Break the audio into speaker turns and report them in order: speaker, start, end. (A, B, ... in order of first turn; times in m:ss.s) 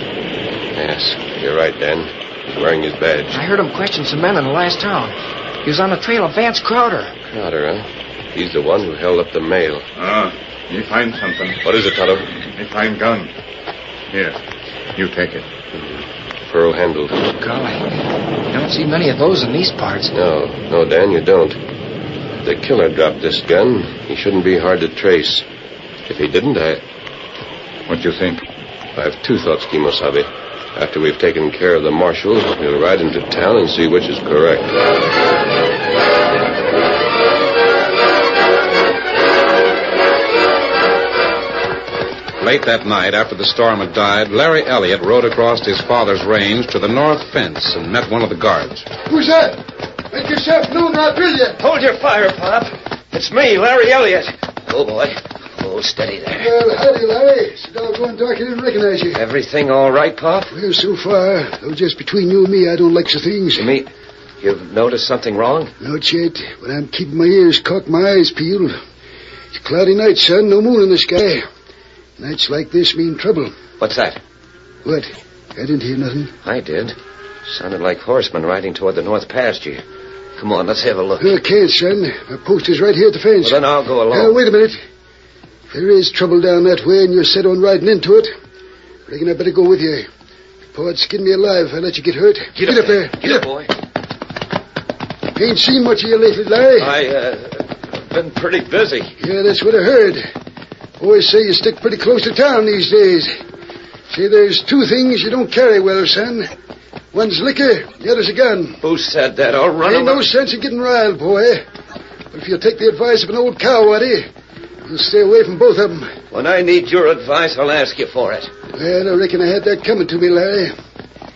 0:00.7-0:03.4 A
0:03.3-0:07.1 B
0:07.3-0:09.8 A
0:10.0-0:11.6 C
0:11.6-0:12.3 A
0:12.4-0:13.3 C
0:14.1-0:14.4 C
0:15.0-0:15.5 C
0:15.7-0:17.3 A
0:17.4-0:17.9 B
0:18.5-0:20.1 B
0:20.1-0:21.6 A
0:22.4-0:25.4 A
0:26.1-0:26.8 A
0:27.9-0:28.4 C
0:28.9-0:34.8 A
0:42.4-0:48.8 D
0:49.1-0:49.6 E
0:50.1-0:51.6 E
0:51.6-0:56.5 F
0:56.3-0:59.2 E
0:59.1-1:00.5 F
1:00.5-1:03.7 E
1:03.5-1:03.9 F
1:04.4-1:05.7 F
1:05.8-1:08.8 E
1:09.5-1:11.4 E
1:12.2-1:13.5 E
1:13.8-1:14.2 F
1:14.8-1:16.3 E
1:16.4-1:17.0 F
1:17.5-1:19.8 F
1:20.4-1:21.4 F
1:21.2-1:24.8 E
1:23.4-1:24.4 F
1:25.7-1:28.3 E
1:29.1-1:30.1 E
1:30.7-1:33.4 E
1:32.5-1:33.7 F
1:35.4-1:36.9 E
1:36.8-1:39.1 F
1:39.2-1:40.2 E
1:41.0-1:43.3 E
1:44.1-1:46.5 E
1:47.1-1:48.8 E
1:48.8-1:50.3 F
1:49.8-1:51.6 E
1:52.3-1:54.2 E
1:54.8-1:56.1 E
1:56.3-1:58.5 F
1:58.7-2:00.7 E